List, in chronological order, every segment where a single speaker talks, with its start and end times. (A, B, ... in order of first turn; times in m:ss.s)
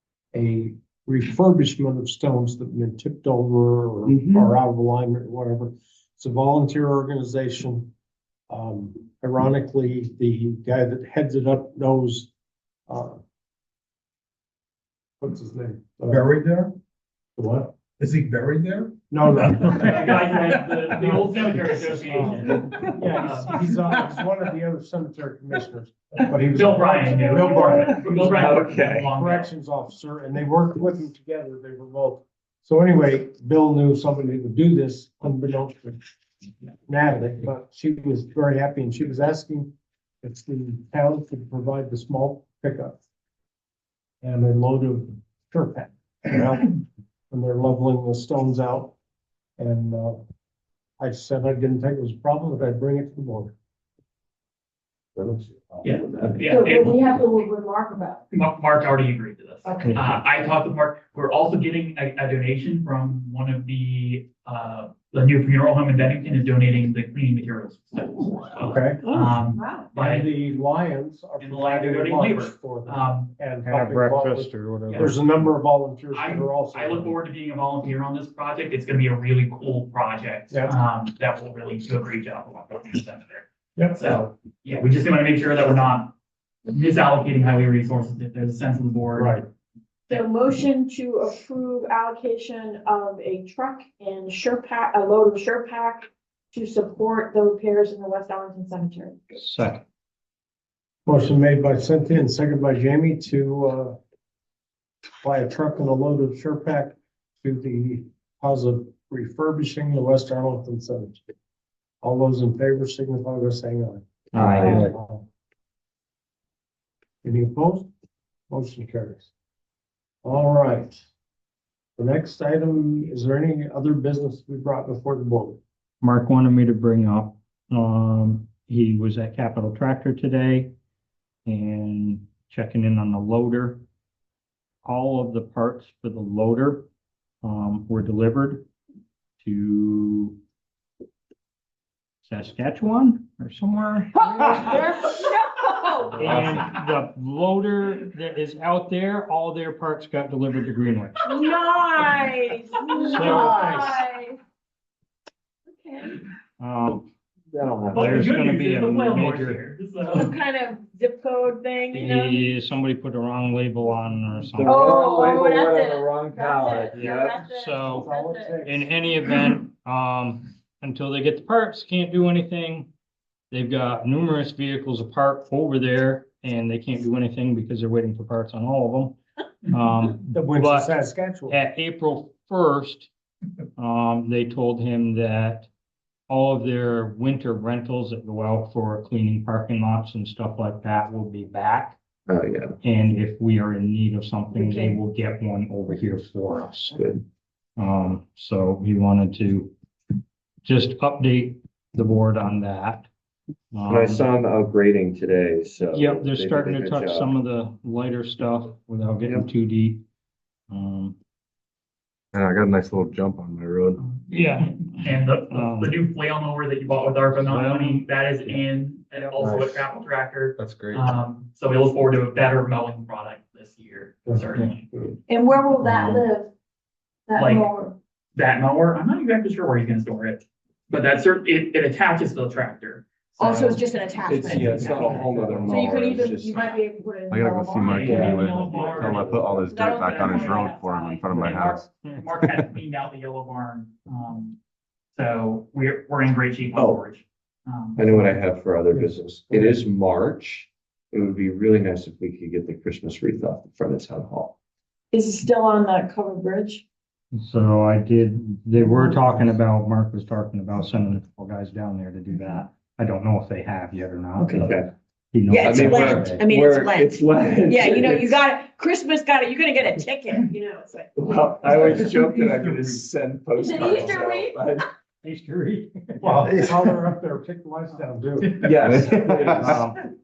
0:00.3-0:07.9 A
0:04.1-0:04.5 B
0:08.5-0:12.3 A
0:12.9-0:13.2 A
0:15.2-0:16.3 A
0:16.1-0:16.8 C
0:17.4-0:17.7 A
0:18.0-0:21.2 C
0:19.1-0:20.5 A
0:19.7-0:23.7 D
0:21.6-0:28.1 A
0:26.5-0:29.5 D
0:27.8-0:29.1 B
0:29.1-0:36.0 A
0:36.9-0:43.0 A
0:44.2-0:49.0 A
0:49.6-0:50.2 A
0:51.0-0:53.6 A
0:55.2-0:56.5 B
0:55.8-0:57.0 D
0:56.5-0:58.2 E
0:58.3-1:10.3 D
0:59.6-1:00.0 E
1:08.6-1:09.2 A
1:09.0-1:09.9 E
1:10.0-1:17.2 A
1:11.4-1:13.3 D
1:13.6-1:15.4 F
1:16.1-1:26.1 D
1:20.5-1:20.8 A
1:26.7-1:29.4 D
1:29.2-1:29.5 A
1:30.1-1:39.3 E
1:39.4-1:39.8 F
1:41.1-1:44.0 A
1:45.2-1:51.2 A
1:52.0-1:55.3 A
1:54.3-1:54.9 F
1:57.2-1:57.9 A
1:58.5-1:59.3 A
2:00.2-2:01.0 A
2:02.0-2:05.6 A
2:06.0-2:10.8 F
2:11.5-2:13.8 F
2:14.8-2:16.9 F
2:17.4-2:18.7 F
2:19.4-2:20.4 F
2:22.2-2:24.7 F
2:24.2-2:26.7 E
2:26.2-2:31.3 F
2:31.2-2:34.4 E
2:33.1-2:34.0 A
2:33.1-2:33.6 F
2:35.7-2:36.2 E
2:36.6-2:37.1 F
2:37.5-2:38.3 B
2:37.9-2:39.6 F
2:37.9-2:40.3 D
2:40.0-2:42.4 E
2:41.9-2:44.9 F
2:44.5-2:47.4 B
2:44.6-2:48.6 E
2:46.9-2:48.0 F
2:47.9-2:48.9 A
2:48.6-2:52.9 F
2:53.5-3:01.0 F
3:00.3-3:01.6 A
3:01.5-3:03.1 F
3:03.8-3:05.7 F
3:06.3-3:12.0 F
3:12.3-3:12.8 B
3:12.8-3:17.0 F
3:14.5-3:15.0 E
3:16.9-3:17.2 B
3:17.8-3:19.7 F
3:20.6-3:23.1 F
3:23.7-3:24.3 F
3:23.9-3:27.3 B
3:25.9-3:30.0 F
3:30.7-3:31.2 F
3:32.3-3:34.0 G
3:34.0-3:44.9 D
3:34.3-3:36.0 F
3:37.4-3:38.6 F
3:40.6-3:41.0 G
3:44.3-3:45.2 A
3:45.3-3:46.5 E
3:45.8-3:46.3 F
3:47.3-3:48.0 E
3:47.4-3:47.7 D
3:48.3-3:53.9 D
3:53.4-3:58.5 E
3:54.3-3:56.8 B
3:54.5-3:55.3 D
3:57.3-4:01.9 G
3:57.8-4:04.6 D
3:57.9-3:59.8 B
3:59.6-4:01.5 E
4:02.0-4:02.4 F
4:05.1-4:08.0 D
4:06.8-4:07.0 B
4:08.0-4:14.6 B
4:08.0-4:08.4 A
4:08.9-4:09.9 A
4:15.1-4:16.8 E
4:17.3-4:24.8 F
4:19.1-4:19.5 A
4:24.4-4:24.9 B
4:25.3-4:26.4 F
4:25.5-4:31.2 E
4:25.6-4:28.4 B
4:31.2-4:34.9 B
4:31.6-4:33.0 C
4:33.6-4:34.8 E
4:35.2-4:36.5 F
4:36.2-4:38.6 A
4:38.4-4:39.5 C
4:38.6-4:39.8 B
4:39.6-4:40.0 F